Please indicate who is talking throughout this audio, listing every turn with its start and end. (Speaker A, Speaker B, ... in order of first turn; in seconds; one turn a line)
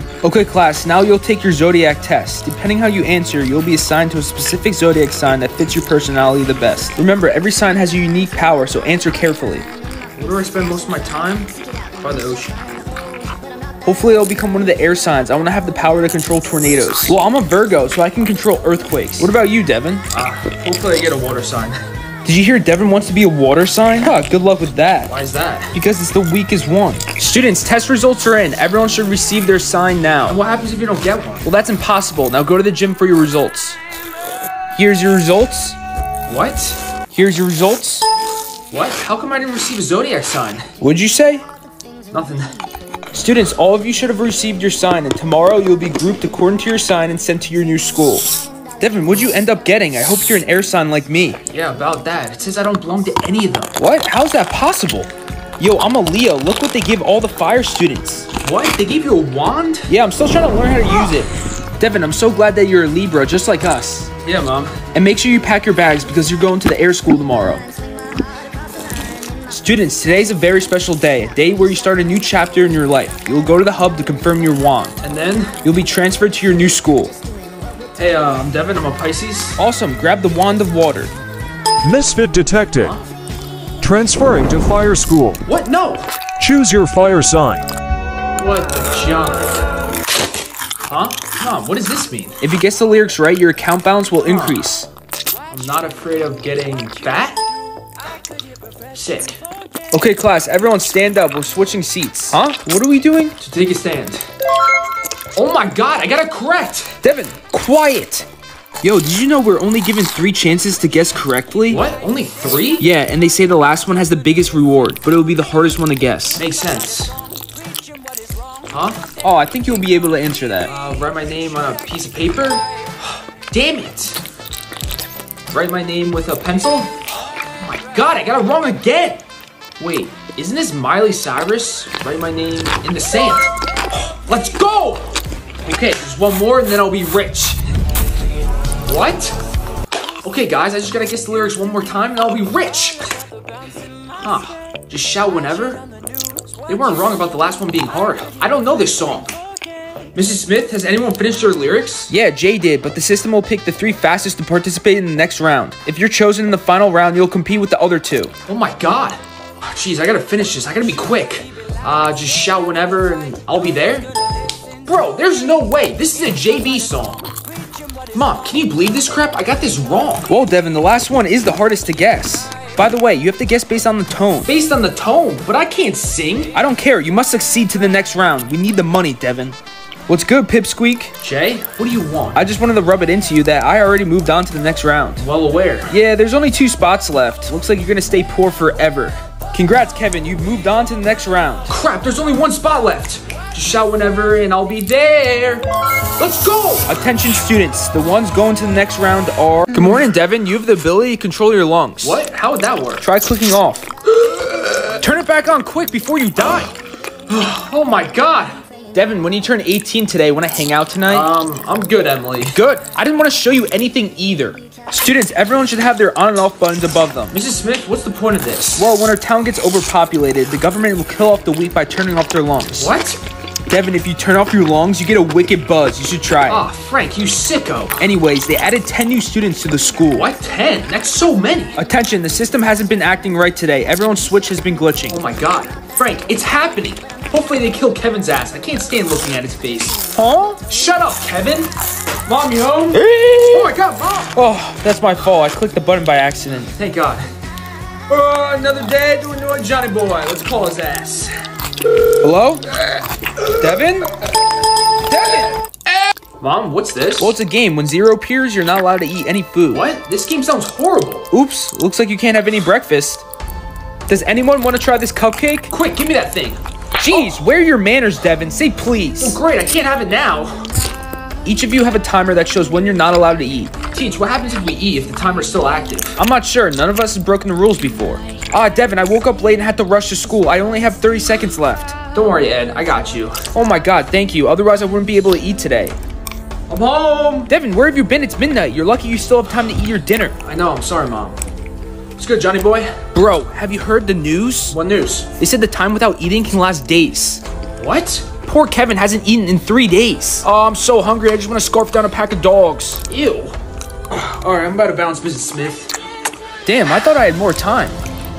Speaker A: 0.2-9.7
Speaker B: 10.2-12.6
Speaker A: 13.8-20.1
Speaker B: 16.7-17.1
Speaker B: 20.1-21.8
Speaker A: 22.2-25.1
Speaker B: 25.1-25.7
Speaker A: 25.7-30.4
Speaker B: 30.3-31.4
Speaker A: 31.4-33.8
Speaker A: 34.7-35.8
Speaker B: 36.3-36.8
Speaker A: 37.1-38.0
Speaker B: 38.7-40.7
Speaker A: 40.8-41.4
Speaker B: 42.1-42.5
Speaker A: 43.1-51.4
Speaker B: 51.5-53.7
Speaker A: 53.8-58.3
Speaker B: 58.4-59.9
Speaker A: 59.9-64.1
Speaker B: 64.2-64.8
Speaker A: 64.9-67.6
Speaker A: 69.5-75.0
Speaker B: 75.0-75.6
Speaker A: 75.6-77.2
Speaker B: 78.0-79.6
Speaker A: 79.6-81.1
Speaker C: 81.8-83.0
Speaker C: 83.8-85.4
Speaker B: 85.5-86.0
Speaker C: 86.4-87.7
Speaker B: 88.4-89.6
Speaker B: 90.9-92.4
Speaker A: 92.4-94.9
Speaker B: 94.2-94.7
Speaker B: 95.5-97.4
Speaker B: 98.9-99.4
Speaker A: 99.9-103.4
Speaker B: 103.4-104.2
Speaker B: 105.3-107.0
Speaker A: 107.0-108.3
Speaker A: 108.8-111.8
Speaker B: 111.7-112.8
Speaker A: 112.8-116.4
Speaker B: 116.4-117.1
Speaker B: 118.7-119.0
Speaker A: 119.2-120.7
Speaker B: 120.7-122.6
Speaker B: 123.5-124.2
Speaker B: 125.5-129.2
Speaker B: 129.8-137.6
Speaker B: 138.8-139.4
Speaker B: 140.2-143.1
Speaker B: 144.2-145.8
Speaker B: 146.7-149.3
Speaker B: 150.1-152.1
Speaker A: 152.1-158.4
Speaker B: 158.4-164.1
Speaker B: 164.8-167.2
Speaker B: 168.1-170.3
Speaker A: 170.3-174.5
Speaker B: 174.4-176.6
Speaker A: 176.5-179.6
Speaker A: 180.1-181.1
Speaker B: 181.2-182.4
Speaker A: 182.3-185.2
Speaker B: 185.2-185.9
Speaker A: 185.9-191.7
Speaker B: 191.7-195.7
Speaker B: 196.2-197.0
Speaker A: 196.8-202.2
Speaker B: 199.8-200.0
Speaker B: 202.0-203.0
Speaker A: 203.0-203.9
Speaker B: 204.3-204.9
Speaker A: 205.0-206.7
Speaker B: 207.3-208.6
Speaker A: 208.9-211.3
Speaker B: 211.1-212.6
Speaker A: 212.5-217.4
Speaker B: 217.3-218.9
Speaker A: 218.8-222.9
Speaker B: 222.7-223.2
Speaker A: 223.7-226.6
Speaker B: 226.4-228.0
Speaker A: 228.0-230.3
Speaker B: 230.1-231.8
Speaker A: 231.8-235.2
Speaker B: 235.1-240.1
Speaker A: 240.1-240.6
Speaker B: 240.6-241.7
Speaker B: 242.2-244.4
Speaker A: 242.9-243.7
Speaker A: 244.3-246.7
Speaker B: 246.7-247.3
Speaker B: 248.1-251.3
Speaker A: 252.2-252.7
Speaker A: 253.6-254.1
Speaker B: 255.1-255.5
Speaker B: 256.4-257.3
Speaker A: 257.2-259.9
Speaker B: 259.7-261.2
Speaker A: 261.3-263.2
Speaker A: 264.1-265.7
Speaker B: 265.7-266.6
Speaker A: 267.0-269.4
Speaker B: 267.1-267.4
Speaker B: 269.2-270.6
Speaker A: 271.4-273.8
Speaker B: 273.9-276.2
Speaker A: 276.2-282.0
Speaker B: 282.1-283.5
Speaker A: 283.5-286.0
Speaker B: 286.7-287.5
Speaker A: 287.4-290.4
Speaker B: 290.4-291.4
Speaker B: 292.2-293.0
Speaker A: 293.1-294.8
Speaker B: 294.7-295.3
Speaker A: 295.4-297.4
Speaker B: 297.8-298.3
Speaker A: 298.3-303.1
Speaker B: 303.1-303.5
Speaker B: 304.1-305.9
Speaker A: 306.6-308.0